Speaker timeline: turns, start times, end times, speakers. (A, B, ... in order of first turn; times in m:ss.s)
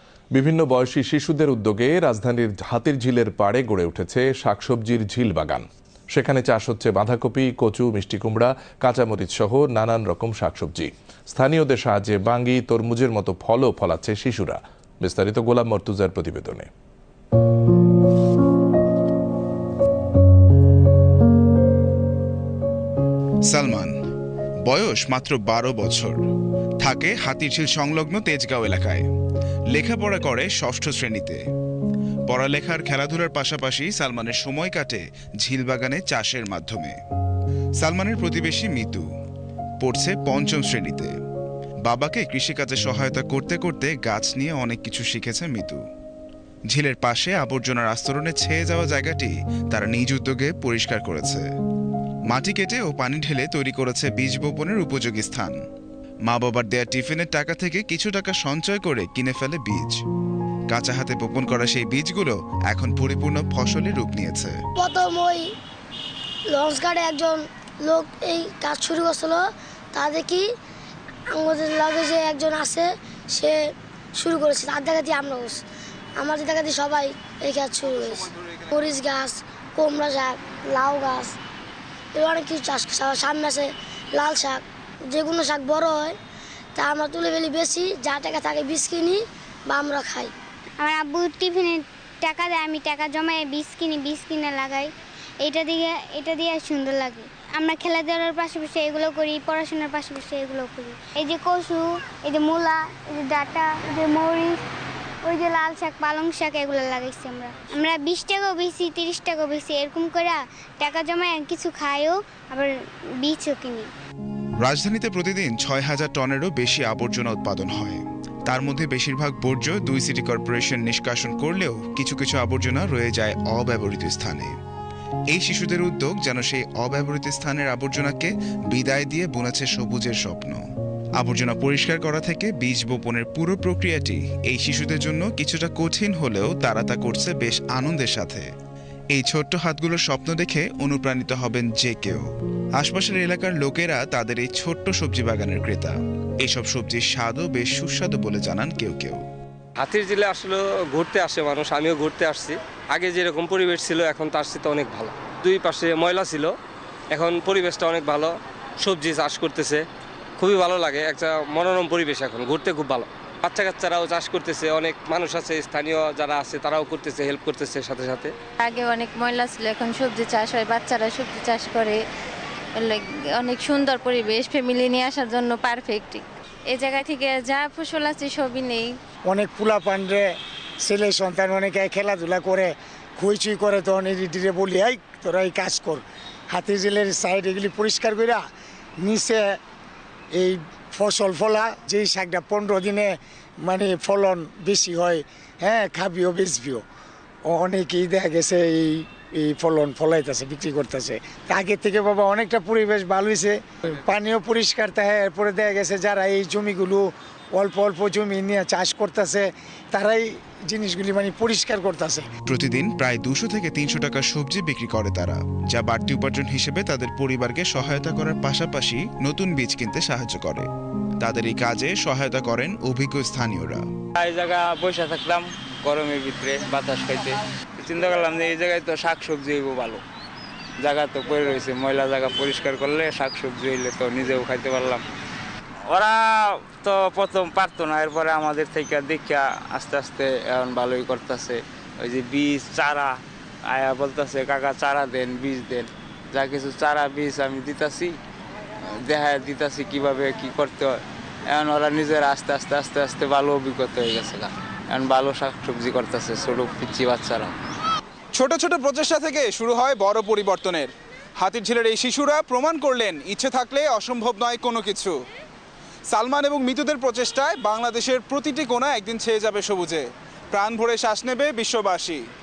0:00.3-0:16.7 A
0:23.5-0:23.9 B
0:24.7-0:26.2 B
0:26.8-0:29.0 B
0:29.7-0:31.4 B
0:32.3-0:37.0 B
0:37.8-0:39.0 B
0:39.8-0:41.1 B
0:41.8-0:45.8 B
0:46.7-0:51.4 B
0:52.3-0:55.5 B
0:56.3-1:00.0 B
1:00.7-1:04.6 B
1:04.8-1:05.4 C
1:06.5-1:09.4 C
1:09.9-1:10.4 C
1:11.3-1:13.6 C
1:14.2-1:15.6 C
1:16.2-1:18.2 C
1:18.7-1:21.4 C
1:22.2-1:26.2 C
1:26.8-1:29.2 C
1:29.7-1:30.3 C
1:30.8-1:34.9 D
1:35.4-1:44.6 D
1:45.2-1:52.7 D
1:53.2-1:53.9 D
1:54.6-2:04.5 B
2:05.3-2:10.6 B
2:11.2-2:18.4 B
2:19.1-2:22.2 B
2:22.8-2:29.2 B
2:29.8-2:36.5 E
2:37.1-2:39.8 E
2:40.4-2:48.3 E
2:48.6-2:52.0 F
2:52.8-2:59.0 F
2:59.3-3:08.4 G
3:09.0-3:09.6 G
3:10.3-3:16.8 G
3:17.5-3:32.3 G
3:32.5-3:40.7 B
3:41.2-3:43.8 B
3:44.2-3:50.0 H
3:50.8-3:55.0 H
3:55.9-4:08.2 H
4:09.0-4:17.6 H
4:18.3-4:25.2 I
4:26.1-4:32.2 I